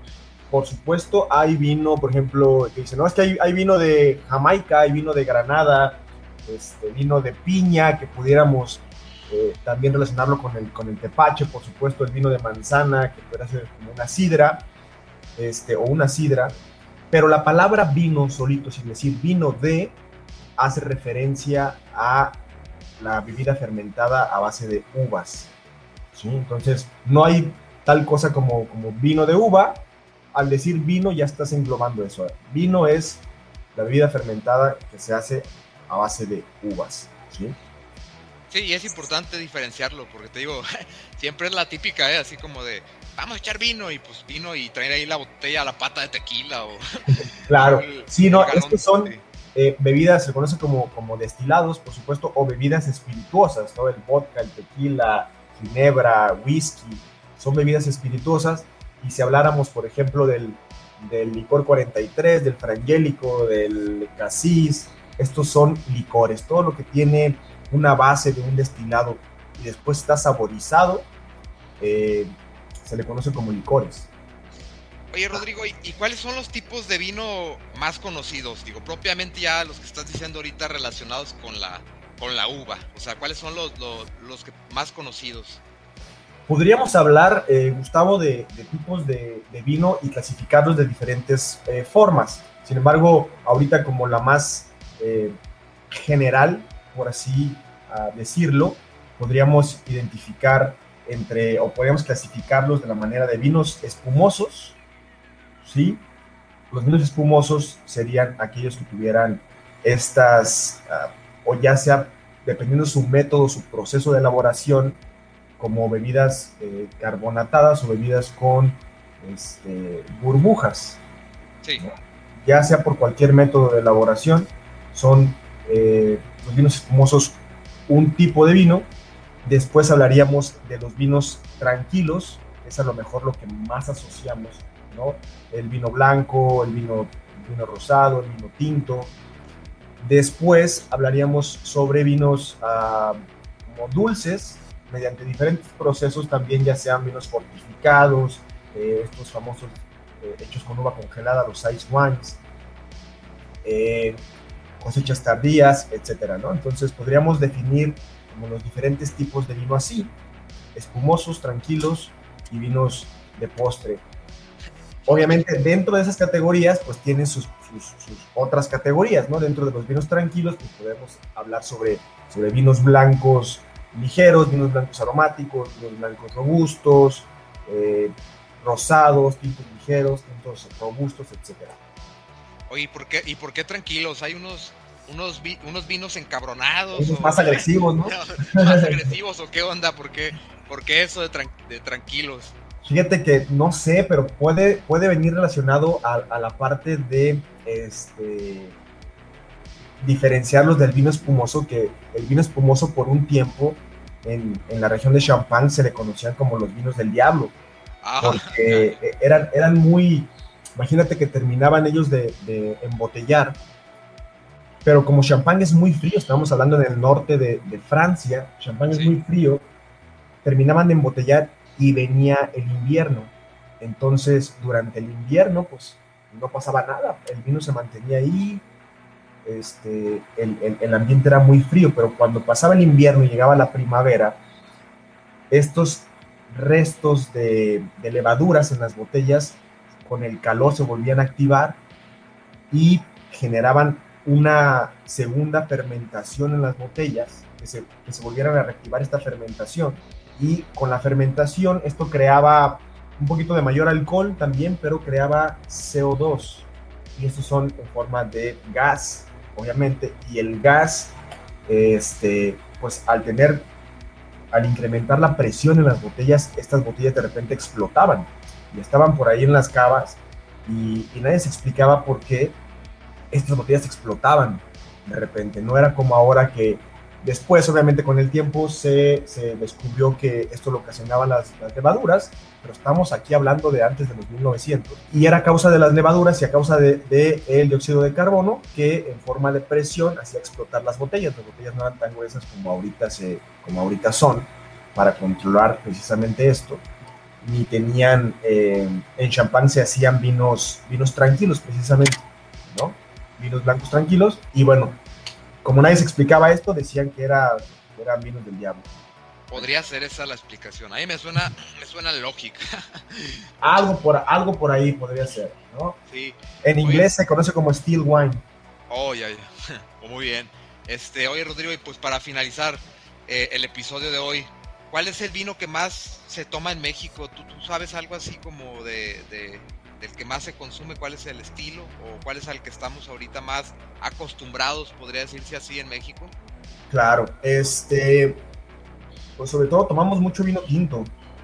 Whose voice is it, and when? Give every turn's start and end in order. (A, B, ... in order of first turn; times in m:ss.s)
0:00.5-0:14.7 A
0:15.4-0:16.6 A
0:17.1-0:20.0 A
0:20.6-0:22.4 A
0:23.0-0:25.5 A
0:26.1-0:33.2 A
0:33.8-0:37.6 A
0:38.5-0:49.2 B
0:47.1-1:11.1 A
1:11.8-1:12.3 A
1:12.8-1:14.1 A
1:15.1-1:25.6 B
1:26.5-1:35.4 A
1:35.9-1:44.8 A
1:45.6-1:46.0 A
1:46.7-1:55.0 A
1:55.6-2:01.0 A
2:01.8-2:08.9 A
2:09.4-2:19.1 A
2:20.0-2:32.4 A
2:33.6-2:34.2 A
2:34.8-2:40.1 A
2:40.8-2:44.0 A
2:45.1-2:45.5 B
2:45.1-3:01.8 A
3:02.7-3:12.6 B
3:06.9-3:09.0 A
3:12.8-3:18.8 A
3:20.0-3:27.6 A
3:28.0-3:29.0 B
3:28.2-3:33.6 A
3:34.8-3:39.7 A
3:38.9-3:39.2 B
3:40.4-3:48.6 A
3:49.4-3:54.4 A
3:55.5-4:01.8 A
4:02.7-4:21.1 A
4:21.7-4:23.7 A
4:24.5-4:32.6 A
4:33.3-4:56.8 A
4:57.4-5:05.0 A
5:05.6-5:08.9 A
5:09.5-5:14.0 B
5:13.6-5:16.0 A
5:16.1-5:17.1 B
5:16.6-5:18.4 A
5:18.9-5:36.3 B
5:36.9-5:38.4 A
5:39.4-5:41.1 A